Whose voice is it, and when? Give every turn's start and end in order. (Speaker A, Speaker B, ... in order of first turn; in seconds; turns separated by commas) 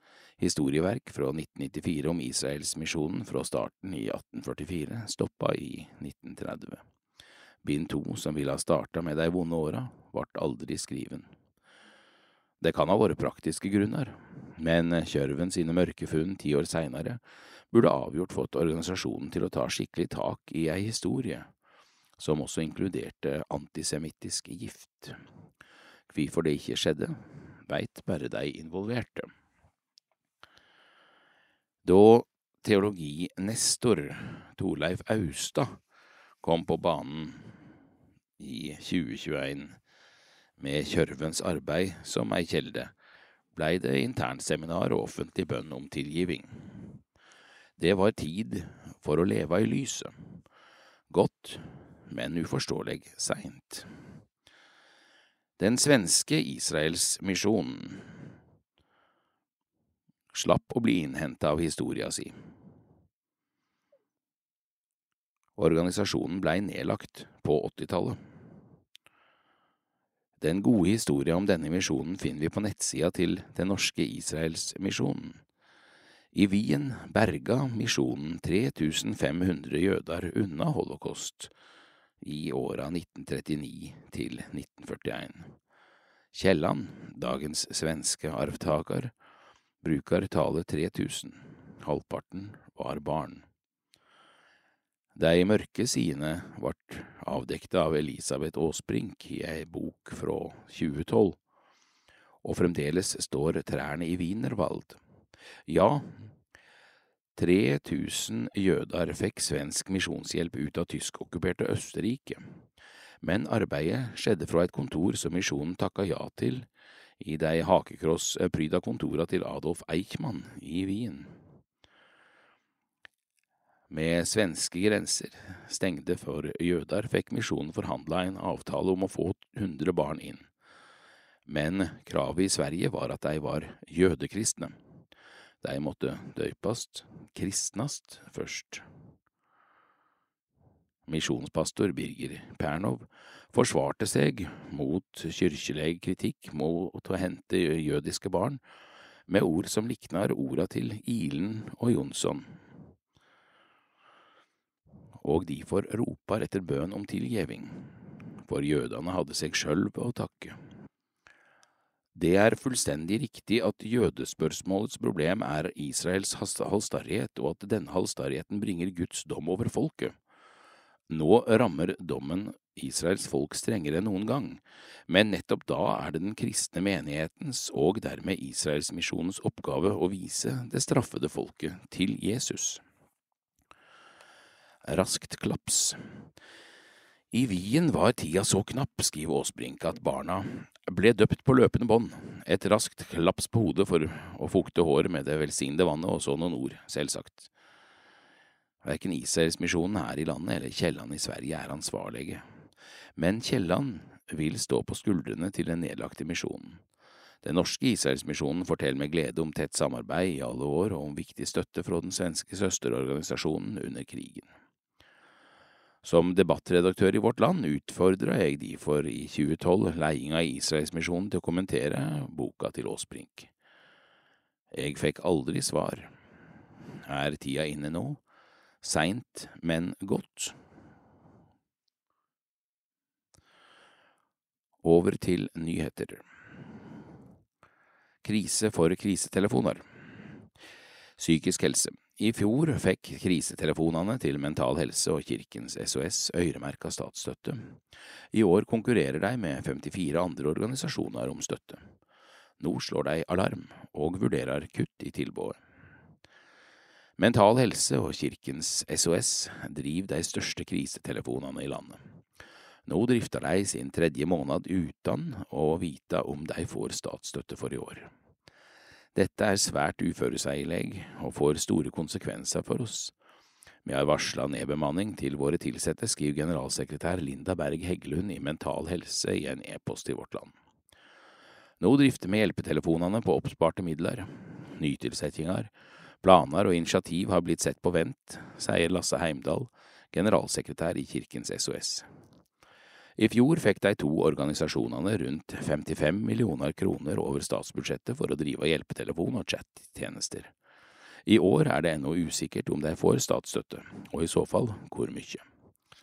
Speaker A: 0.4-6.8, Speaker A: 7.6-11.3, Speaker A: 12.6-17.2, Speaker A: 17.7-21.5, Speaker A: 22.2-25.2, Speaker A: 26.1-29.3, Speaker A: 31.8-35.8, Speaker A: 36.4-37.6, Speaker A: 38.4-39.8, Speaker A: 40.6-42.9, Speaker A: 43.5-47.0, Speaker A: 47.8-50.3, Speaker A: 51.1-53.9, Speaker A: 55.6-58.2, Speaker A: 60.3-62.4, Speaker A: 65.6-68.2, Speaker A: 70.4-75.4, Speaker A: 76.3-81.5, Speaker A: 82.2-85.5, Speaker A: 86.3-89.1, Speaker A: 89.8-93.5, Speaker A: 95.2-101.4, Speaker A: 102.4-105.0, Speaker A: 105.7-106.3, Speaker A: 107.4-112.5, Speaker A: 113.2-116.7, Speaker A: 117.2-121.4, Speaker A: 123.9-130.5, Speaker A: 131.5-134.8, Speaker A: 135.6-138.8, Speaker A: 141.1-148.6, Speaker A: 149.3-152.6, Speaker A: 155.2-160.6, Speaker A: 162.2-170.2, Speaker A: 171.1-182.8, Speaker A: 184.8-186.0, Speaker A: 187.3-197.5, Speaker A: 198.8-202.4, Speaker A: 203.2-206.8, Speaker A: 207.4-214.5, Speaker A: 216.0-223.5, Speaker A: 224.7-226.1, Speaker A: 227.0-228.2, Speaker A: 228.8-230.6, Speaker A: 234.8-236.3, Speaker A: 238.2-239.9, Speaker A: 241.2-247.8, Speaker A: 248.3-251.9, Speaker A: 252.6-255.6, Speaker A: 257.2-262.0, Speaker A: 262.9-268.1, Speaker A: 269.1-273.1, Speaker A: 273.9-280.5, Speaker A: 281.8-285.7, Speaker A: 286.2-292.1, Speaker A: 293.2-300.5, Speaker A: 301.3-305.4